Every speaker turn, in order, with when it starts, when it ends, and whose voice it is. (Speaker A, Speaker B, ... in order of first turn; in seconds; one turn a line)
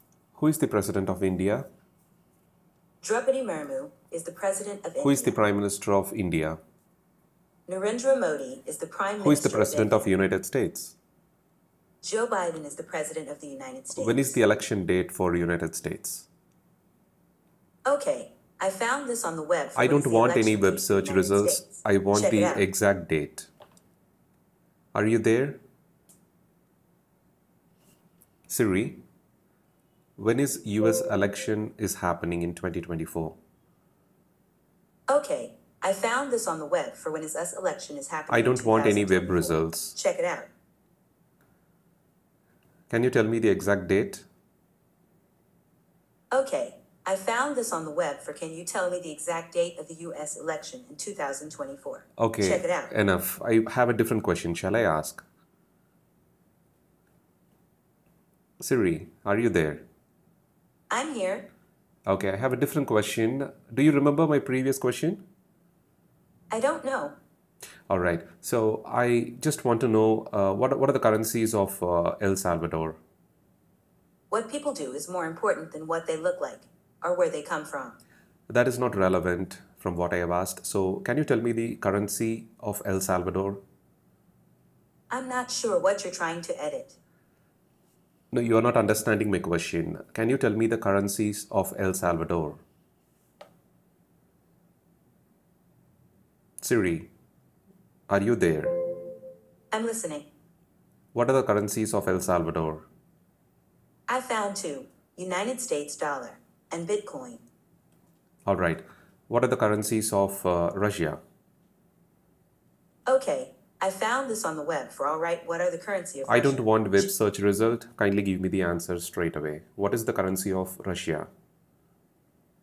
Speaker A: 0.3-1.7
Speaker B: 3.0-5.4
Speaker A: 5.0-6.6
Speaker B: 7.7-10.1
Speaker A: 9.2-10.9
Speaker B: 12.0-14.4
Speaker A: 13.9-16.3
Speaker B: 17.9-22.6
Speaker A: 19.8-23.5
Speaker A: 24.9-25.6
Speaker A: 28.5-29.0
Speaker A: 30.2-33.4
Speaker B: 35.1-40.5
Speaker A: 38.3-40.0
Speaker A: 42.9-44.3
Speaker B: 46.3-52.9
Speaker A: 52.2-55.2
Speaker A: 58.6-59.9
Speaker B: 60.9-61.5
Speaker A: 62.1-65.2
Speaker B: 66.5-67.2
Speaker A: 67.9-73.0
Speaker B: 74.3-78.0
Speaker A: 78.5-83.6
Speaker B: 85.1-87.0
Speaker A: 88.3-92.6
Speaker A: 96.6-97.1
Speaker A: 98.1-98.8
Speaker B: 99.7-100.3
Speaker A: 101.1-102.9
Speaker B: 104.1-107.4
Speaker A: 108.5-111.2
Speaker B: 113.1-117.0
Speaker A: 116.3-121.3